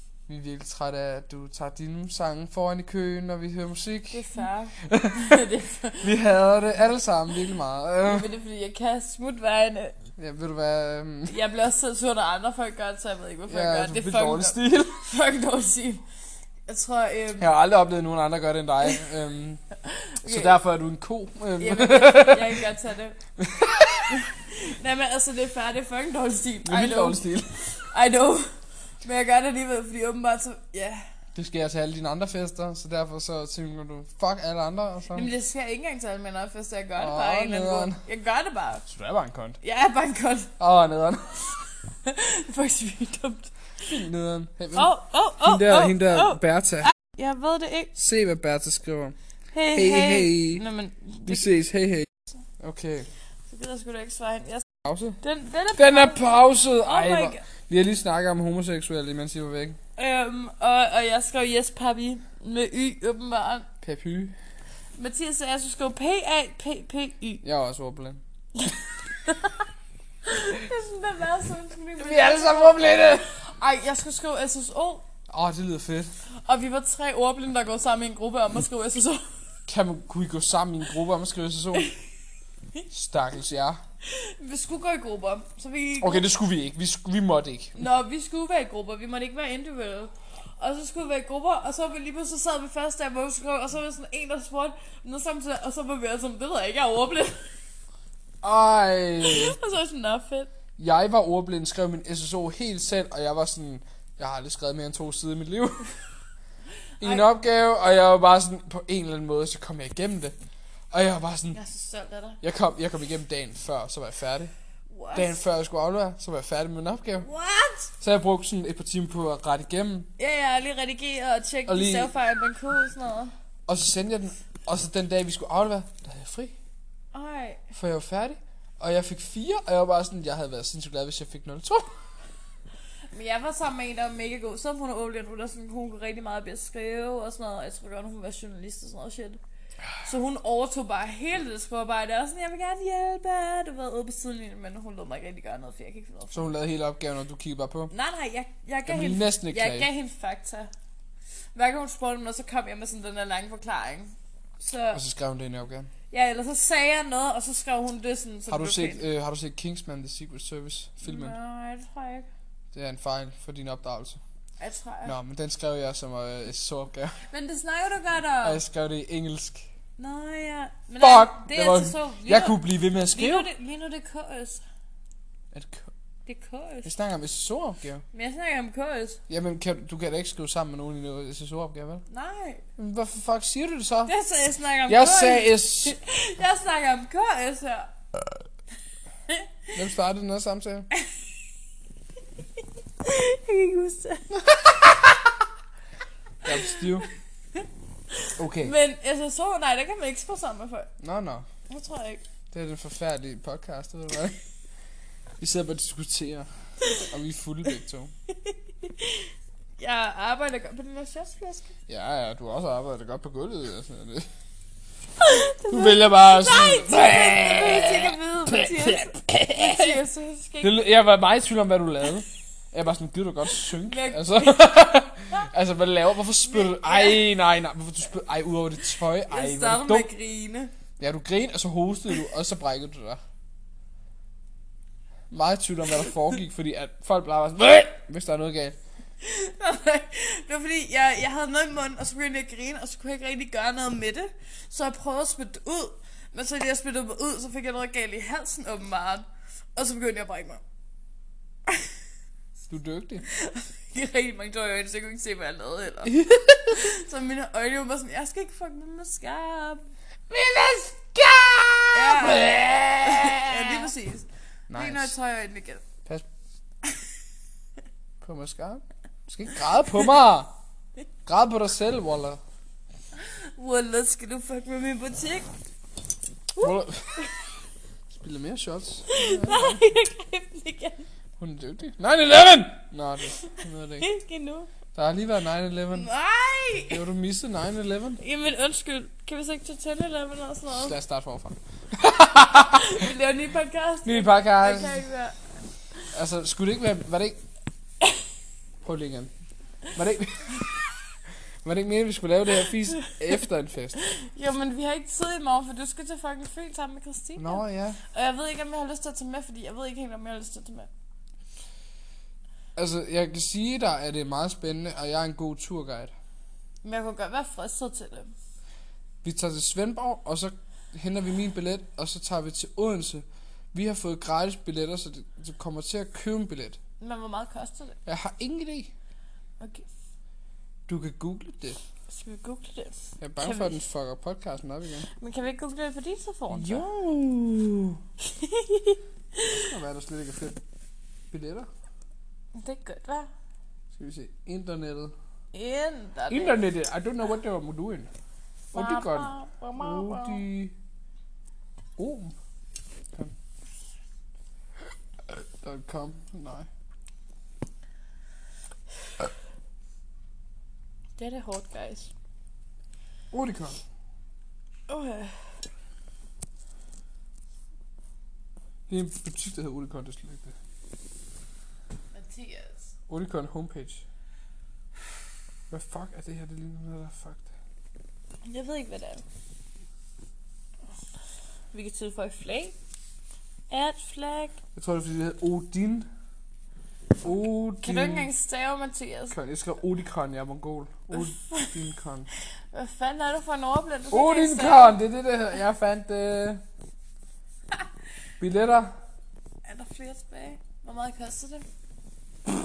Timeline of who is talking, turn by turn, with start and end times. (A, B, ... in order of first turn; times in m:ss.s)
0:00.3-0:04.3 A
0:04.1-0:06.1 B
0:04.8-0:05.4 A
0:06.0-0:08.3 A
0:08.0-0:10.0 B
0:10.2-0:11.4 A
0:11.3-0:16.0 B
0:13.5-0:15.0 A
0:16.7-0:17.5 B
0:17.4-0:19.6 A
0:19.8-0:20.6 B
0:20.2-0:22.6 A
0:21.6-0:23.2 B
0:23.4-0:24.2 A
0:24.4-0:27.3 B
0:26.6-0:27.7 A
0:27.8-0:28.5 B
0:29.0-0:31.0 B
0:31.3-0:35.3 A
0:35.1-0:38.8 B
0:37.0-0:38.0 A
0:38.9-0:39.6 A
0:39.6-0:40.5 B
0:40.6-0:41.4 A
0:41.9-0:43.5 B
0:43.8-0:46.9 A
0:44.8-0:47.9 B
0:48.0-0:49.2 A
0:49.5-0:51.5 B
0:49.7-0:50.6 A
0:51.3-0:52.1 A
0:52.6-0:53.1 A
0:53.5-0:54.6 B
0:54.8-0:55.2 A
0:55.2-0:57.4 B
0:55.7-0:59.8 A
1:00.0-1:03.7 B
1:03.8-1:04.4 A
1:05.0-1:07.4 B
1:07.4-1:08.2 A
1:08.6-1:09.6 B
1:10.2-1:15.0 B
1:12.0-1:13.2 A
1:15.3-1:16.1 A
1:16.4-1:19.2 B
1:19.7-1:21.9 A
1:22.9-1:23.8 A
1:24.0-1:26.3 B
1:26.0-1:27.9 A
1:27.8-1:37.4 B
1:38.4-1:39.6 A
1:39.2-1:40.5 B
1:40.8-1:45.9 A
1:47.0-1:50.3 A
1:50.9-1:51.6 A
1:51.5-1:52.4 B
1:52.4-1:54.5 A
1:54.9-1:55.4 B
1:55.1-1:57.3 A
1:57.2-1:57.9 B
1:58.0-2:00.1 A
2:00.2-2:03.3 B
2:01.7-2:02.1 A
2:03.7-2:06.5 A
2:07.1-2:07.7 B
2:07.8-2:11.8 A
2:13.1-2:19.4 B
2:20.0-2:26.5 B
2:26.3-2:27.9 A
2:27.9-2:30.7 B
2:28.8-2:29.9 A
2:31.5-2:35.0 B
2:34.9-2:35.9 A
2:36.1-2:39.0 B
2:38.5-2:41.4 A
2:41.0-2:42.3 B
2:42.7-2:44.2 A
2:44.6-2:45.2 B
2:45.0-2:47.2 A
2:47.3-2:48.6 B
2:48.4-2:49.6 A
2:50.0-2:54.6 B
2:51.0-2:53.5 A
2:55.5-2:55.9 A
2:56.2-2:56.9 B
2:56.8-2:58.0 A
2:58.1-2:59.2 B
2:59.3-3:02.0 A
3:02.1-3:02.6 B
3:02.8-3:04.1 A
3:04.1-3:07.9 B
3:04.9-3:06.0 A
3:09.7-3:10.9 A
3:12.6-3:14.4 B
3:16.4-3:17.1 A
3:17.6-3:20.9 B
3:18.4-3:18.7 A
3:21.0-3:21.5 A
3:21.7-3:22.2 B
3:22.5-3:24.4 A
3:25.4-3:28.1 A
3:28.4-3:31.7 B
3:31.9-3:34.3 A
3:35.2-3:40.8 B
3:35.7-3:40.0 A
3:40.6-3:50.1 A
3:43.8-3:44.7 B
3:46.4-3:47.3 B
3:49.3-3:50.7 B
3:51.0-3:53.2 A
3:55.3-3:58.8 A
3:59.2-4:10.6 B
4:12.7-4:13.2 A
4:13.3-4:19.8 B
4:16.1-4:16.8 A
4:20.3-4:23.9 A
4:21.9-4:25.8 B
4:24.7-4:25.1 A
4:28.2-4:30.5 A
4:31.2-4:32.4 A
4:33.2-4:35.5 B
4:36.6-4:37.3 B
4:36.6-4:37.2 A
4:38.1-4:39.8 A
4:39.1-4:41.0 B
4:41.4-4:44.0 A
4:44.0-4:44.7 B
4:44.9-4:46.1 A
4:45.9-4:47.0 B
4:46.9-4:48.2 A
4:48.2-4:51.0 B
4:50.7-4:53.0 A
4:52.6-4:55.4 B
4:54.0-4:55.1 A
4:56.1-4:57.4 A
4:58.8-4:59.3 A
4:59.9-5:00.7 A
5:01.6-5:04.0 A
5:04.0-5:10.9 B
5:07.4-5:08.0 A
5:12.8-5:16.1 A
5:16.8-5:18.3 B
5:19.2-5:26.8 A
5:27.0-5:28.0 B
5:28.0-5:28.9 A
5:29.6-5:29.9 B
5:30.9-5:31.8 A
5:32.1-5:33.8 B
5:33.2-5:35.1 A
5:35.1-5:36.8 B
5:36.5-5:38.0 A
5:38.2-5:39.6 B
5:39.5-5:40.6 A
5:41.3-5:41.7 A
5:42.5-5:43.3 B
5:43.9-5:45.1 A
5:45.5-5:46.6 B
5:46.3-5:48.1 A
5:48.7-5:50.7 A
5:48.7-5:50.4 B
5:52.0-5:52.4 A
5:55.3-5:56.7 A
6:01.2-6:02.1 B
6:03.3-6:03.8 A
6:04.9-6:05.3 B
6:08.9-6:10.5 A
6:12.1-6:12.9 B
6:13.1-6:14.0 A
6:15.7-6:17.5 A
6:18.4-6:19.2 B
6:21.7-6:22.7 B
6:23.7-6:24.5 B
6:24.7-6:26.1 A
6:27.2-6:28.3 A
6:27.8-6:29.3 B
6:29.3-6:32.3 A
6:31.1-6:31.7 B
6:32.7-6:35.0 B
6:34.1-6:36.6 A
6:38.4-6:38.9 A
6:39.6-6:41.6 B